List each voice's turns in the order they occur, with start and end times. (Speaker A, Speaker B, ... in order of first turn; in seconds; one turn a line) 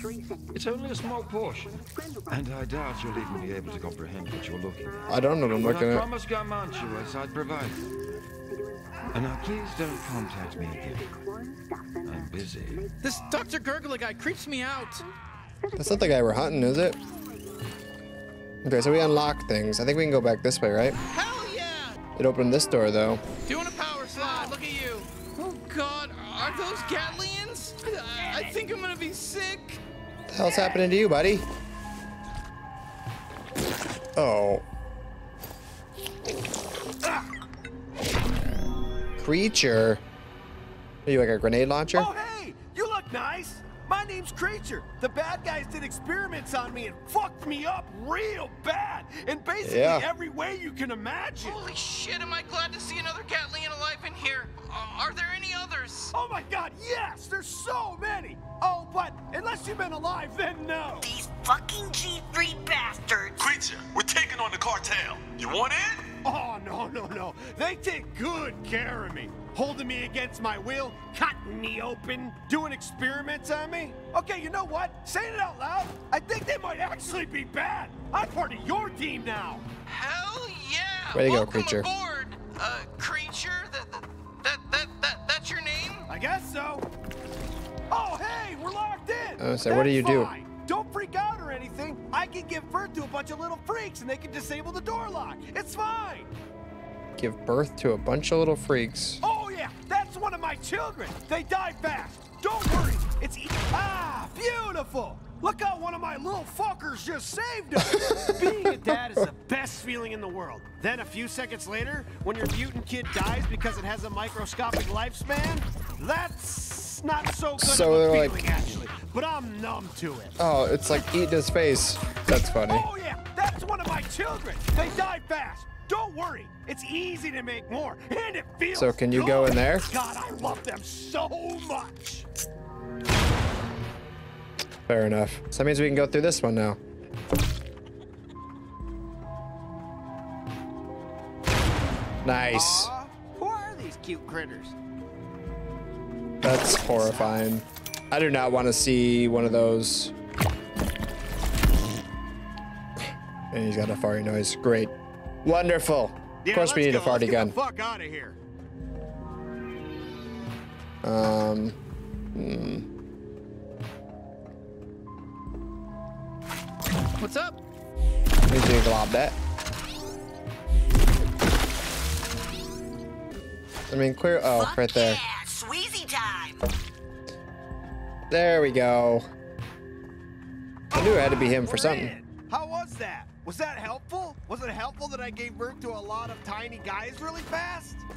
Speaker A: 0.5-8.0
Speaker B: 5.1-6.0
Speaker A: 9.1-11.1
Speaker A: 12.1-12.9
Speaker C: 13.0-15.1
Speaker B: 15.8-17.0
Speaker B: 18.6-21.0
Speaker C: 21.1-22.0
Speaker B: 22.2-23.2
Speaker C: 23.5-29.8
Speaker B: 30.3-31.5
Speaker B: 34.2-34.6
Speaker B: 39.2-40.0
Speaker B: 41.0-42.1
Speaker D: 41.9-51.6
Speaker B: 49.6-50.1
Speaker C: 51.4-56.1
Speaker D: 56.1-61.1
Speaker E: 61.0-63.5
Speaker F: 63.4-66.2
Speaker D: 66.2-79.7
Speaker C: 79.9-86.1
Speaker B: 81.1-81.9
Speaker D: 86.1-86.9
Speaker D: 87.9-96.3
Speaker B: 89.4-90.3
Speaker B: 97.2-99.2
Speaker D: 99.2-120.4
Speaker B: 117.6-118.5
Speaker B: 120.4-122.9
Speaker D: 122.6-132.2
Speaker B: 128.7-129.9
Speaker B: 134.9-136.8
Speaker B: 142.2-142.9
Speaker D: 142.5-144.8
Speaker B: 146.4-150.1
Speaker D: 146.7-147.4
Speaker B: 153.5-154.9
Speaker B: 155.4-157.6
Speaker D: 156.4-158.4
Speaker B: 161.0-161.8
Speaker B: 162.3-162.9
Speaker C: 167.2-167.6
Speaker B: 168.5-169.4
Speaker B: 173.9-175.2
Speaker E: 174.4-176.6
Speaker B: 178.3-179.3
Speaker D: 180.9-188.1
Speaker B: 180.9-182.1